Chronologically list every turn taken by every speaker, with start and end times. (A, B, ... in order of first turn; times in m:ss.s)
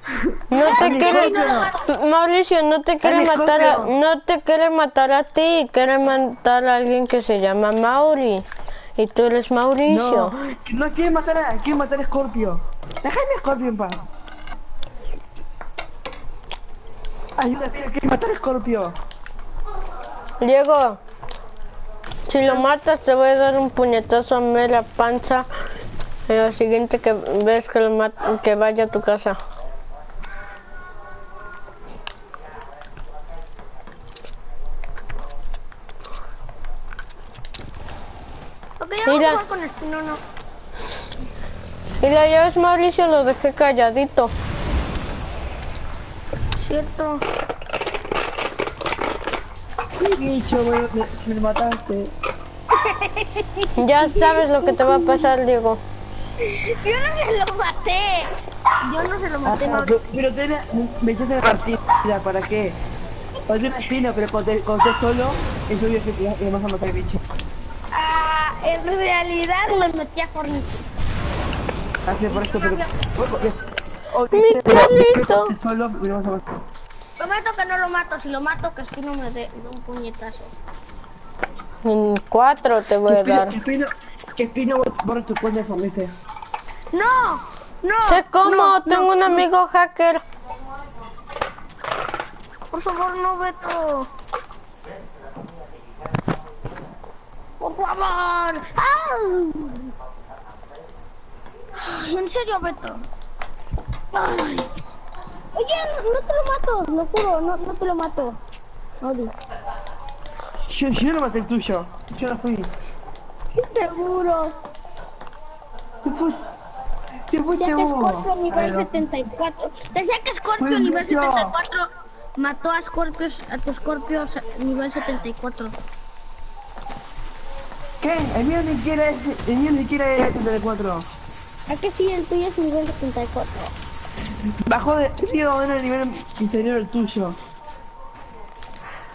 0:00.3-0:01.7 A
0:00.5-0:10.4 B
0:00.6-0:01.8 C
0:03.0-0:03.9 A
0:09.9-0:14.0 A
0:17.4-0:19.0 A
0:20.4-0:21.0 B
0:22.3-0:25.5 B
0:26.3-0:29.4 B
0:38.8-0:40.2 C
0:39.0-0:39.4 B
0:42.0-0:44.3 B
0:46.6-0:47.2 C
0:50.0-0:52.1 A
0:52.7-0:55.2 C
0:53.8-0:55.8 B
0:56.5-0:59.9 C
0:59.4-1:02.8 A
1:03.5-1:07.2 A
1:07.9-1:10.7 C
1:12.1-1:13.6 A
1:12.3-1:12.9 C
1:14.1-1:16.5 A
1:14.3-1:15.5 B
1:17.2-1:20.5 C
1:21.8-1:23.6 B
1:23.1-1:26.1 A
1:26.9-1:29.4 C
1:28.0-1:30.2 B
1:32.7-1:34.0 C
1:37.6-1:39.8 C
1:41.8-1:43.0 C
1:44.1-1:44.7 C
1:45.5-1:48.4 C
1:49.0-1:49.3 C
1:50.7-1:52.7 A
1:53.6-1:54.6 C
1:56.0-1:56.4 A
1:57.3-1:58.9 A
1:57.6-2:01.9 C
2:00.6-2:01.5 A
2:02.4-2:05.7 C
2:08.0-2:11.0 A
2:11.7-2:13.7 C
2:14.6-2:17.4 A